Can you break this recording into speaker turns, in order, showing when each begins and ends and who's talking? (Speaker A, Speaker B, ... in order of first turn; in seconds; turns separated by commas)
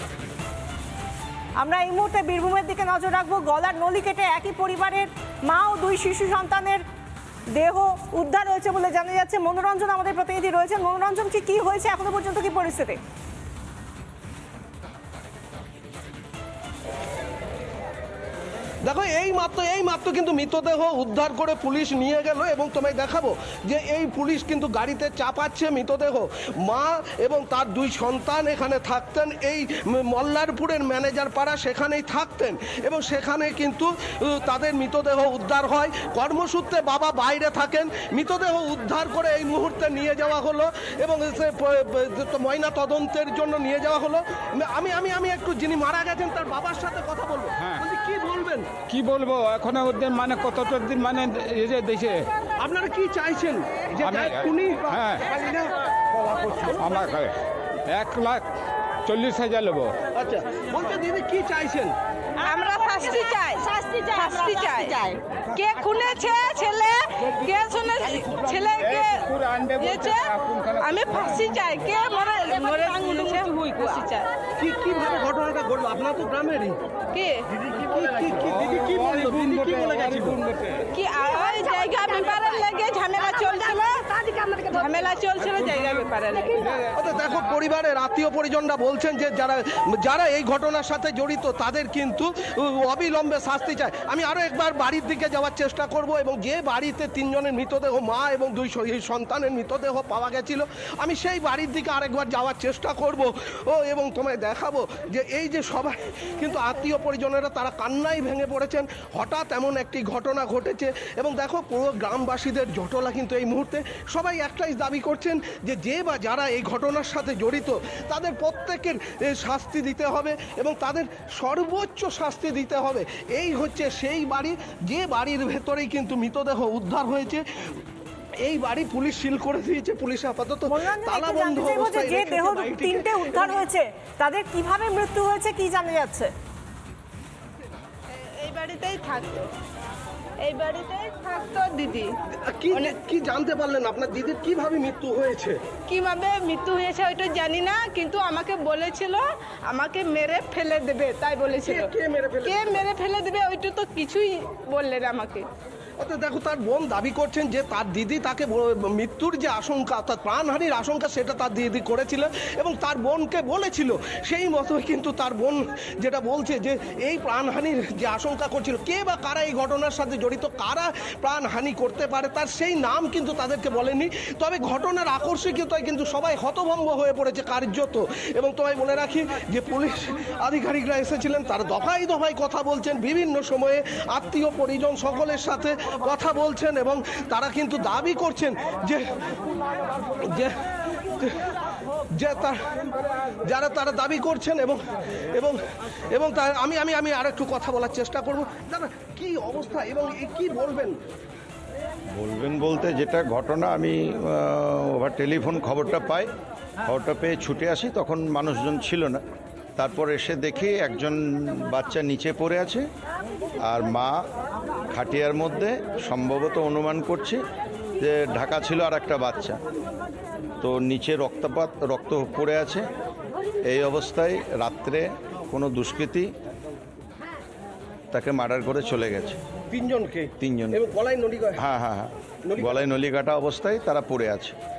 Speaker A: 1.6-6.8, Speaker A: 7.5-13.0, Speaker B: 18.8-48.7, Speaker C: 47.6-47.8, Speaker C: 48.9-52.2, Speaker B: 52.6-55.7, Speaker C: 54.0-55.2, Speaker C: 56.6-57.4, Speaker C: 57.9-58.4, Speaker C: 59.0-59.9, Speaker B: 60.1-61.9, Speaker D: 62.4-70.3, Speaker C: 68.5-71.4, Speaker D: 70.8-74.3, Speaker B: 74.6-76.8, Speaker D: 77.1-77.4, Speaker B: 77.5-80.4, Speaker C: 78.5-80.8, Speaker D: 80.9-84.0, Speaker D: 84.7-86.8, Speaker B: 86.9-127.8, Speaker B: 128.4-133.6, Speaker A: 130.7-136.3, Speaker D: 138.4-139.5, Speaker D: 140.4-142.1, Speaker B: 142.4-145.6, Speaker D: 145.9-151.9, Speaker B: 151.6-152.8, Speaker D: 152.4-155.4, Speaker B: 156.0-189.1, Speaker B: 190.3-190.6, Speaker B: 191.2-191.5, Speaker B: 192.1-194.8, Speaker B: 195.3-195.6, Speaker B: 196.1-201.0, Speaker E: 202.2-206.3, Speaker E: 206.9-209.2, Speaker E: 209.8-212.9, Speaker E: 213.6-214.2, Speaker E: 214.9-217.4, Speaker E: 218.0-219.6, Speaker E: 220.6-222.9, Speaker E: 223.7-226.3, Speaker E: 228.1-229.4, Speaker B: 229.7-231.6, Speaker E: 230.4-230.8, Speaker E: 231.6-234.6, Speaker B: 232.5-232.8